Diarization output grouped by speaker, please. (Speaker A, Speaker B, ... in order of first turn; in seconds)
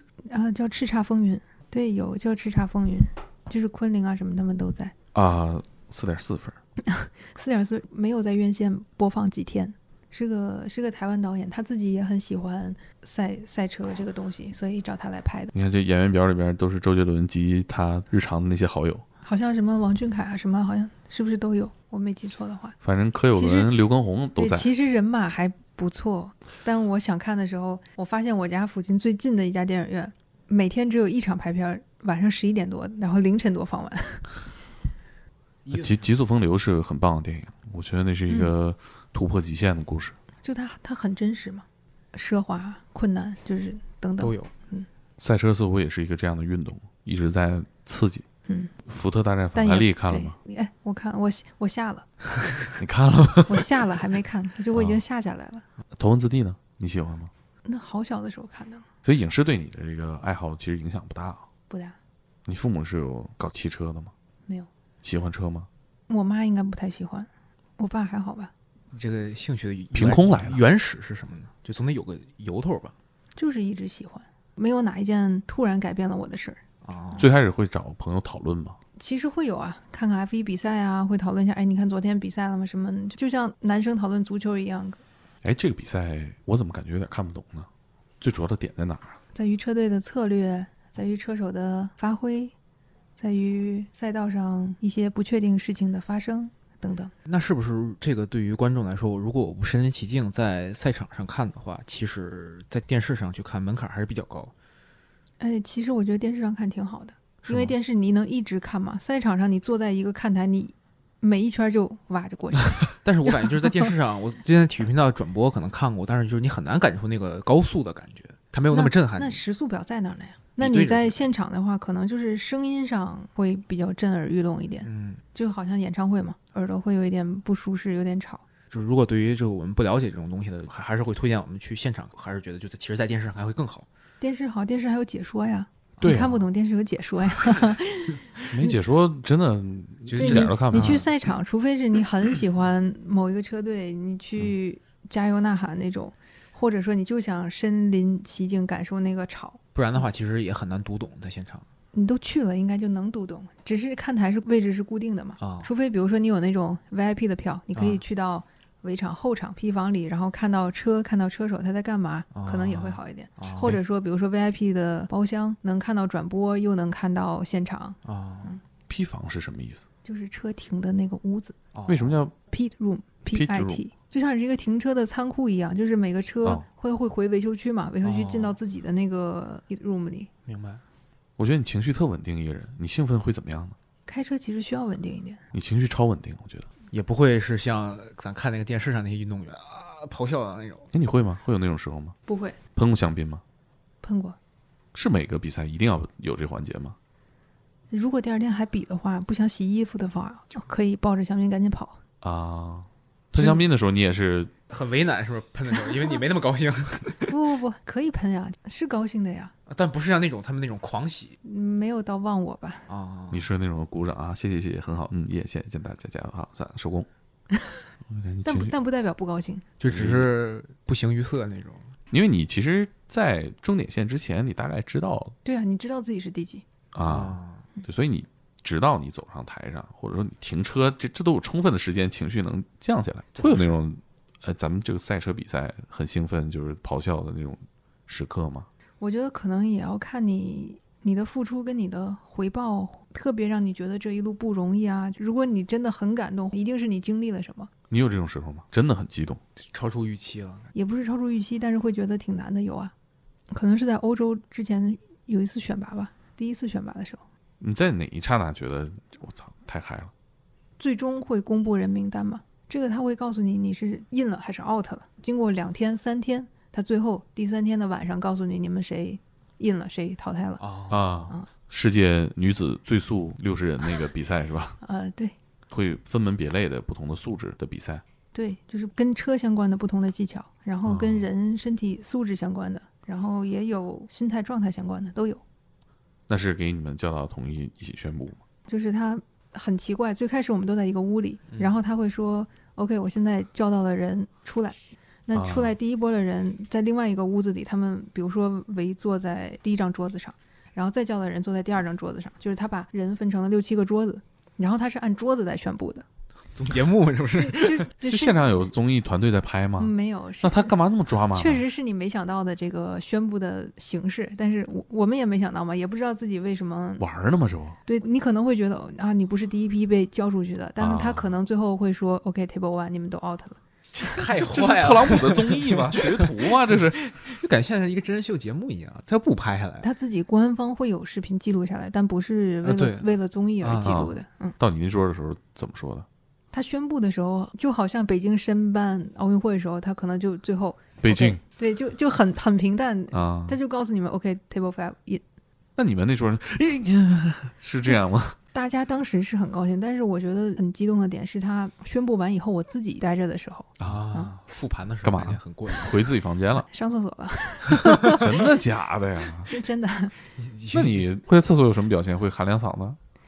Speaker A: 0.3-4.9, 6.9-15.5, 19.2-22.8, 23.3-23.7, 24.4-34.3, 40.4-44.9, 48.5-48.7, 49.5-52.1, 53.5-55.6, 57.7-58.9, 61.7-62.0, 66.1-68.5, 73.4-76.6, 79.0-85.0, 89.3-92.5, 93.2-97.1, 105.4-113.3, 118.7-128.4, 134.2-138.8, 140.2-149.6, 151.9-168.6, 170.0-171.6, 172.5-180.3, 184.1-185.4, 192.3-192.6, 194.0-194.4, 197.9-202.0, 207.3-209.5, 211.4-212.9, 218.4-219.7, 225.4-226.7, 239.0-247.7, 250.7-252.9, 253.5-257.2, 260.8-270.6, 274.8-275.4, 278.3-285.4, 288.7-306.1, 307.3-308.5, 309.8-310.7, 311.3-317.1, 317.9-324.2, 329.8-334.6, 336.5-345.2, 348.5-354.3, 356.7-358.3, 359.5-360.2
Speaker B: 5.1-6.6, 15.5-19.0, 22.8-24.7, 35.7-40.1, 45.2-48.2, 48.9-50.4, 52.8-53.7, 54.7-55.0, 56.0-57.3, 59.0-61.5, 62.5-64.1, 65.0-65.7, 69.9-70.6, 77.2-78.8, 85.4-87.7, 88.2-89.2, 136.0-136.3, 138.5-141.1, 168.9-169.8, 171.9-172.3, 173.3-173.8, 181.4-183.8, 185.5-186.7, 190.9-192.2, 192.8-193.4, 194.9-197.0, 202.2-204.5, 213.3-217.1, 218.1-218.7, 219.9-220.3, 222.1-225.3, 226.9-238.7, 247.9-249.4, 257.6-260.1, 270.9-274.8, 275.7-278.0, 280.9-281.2, 286.3-288.4, 295.3-295.8, 308.1-311.6, 317.0-317.8, 320.8-321.3, 324.0-327.1, 334.6-336.1, 341.0-341.4, 343.1-343.6, 345.8-348.4, 353.8-354.1, 355.0-356.7, 358.0-359.5, 360.7-363.0
Speaker C: 35.6-36.1, 44.2-44.5, 68.9-73.0, 76.8-77.3, 97.2-104.5, 113.0-119.4, 120.6-121.3, 124.8-125.2, 128.7-133.9, 136.1-136.4, 140.1-141.1, 149.8-151.7, 155.4-155.7, 157.8-158.0, 162.3-163.8, 168.0-168.6, 171.7-172.2, 178.0-178.6, 180.5-180.8, 186.9-190.9, 204.7-207.3, 209.7-211.4, 212.9-213.5, 219.8-221.9, 227.1-227.6, 233.4-233.8, 249.6-250.7, 270.6-271.1, 306.6-307.9, 324.1-329.9, 332.6-334.1, 353.8-356.1, 360.4-361.1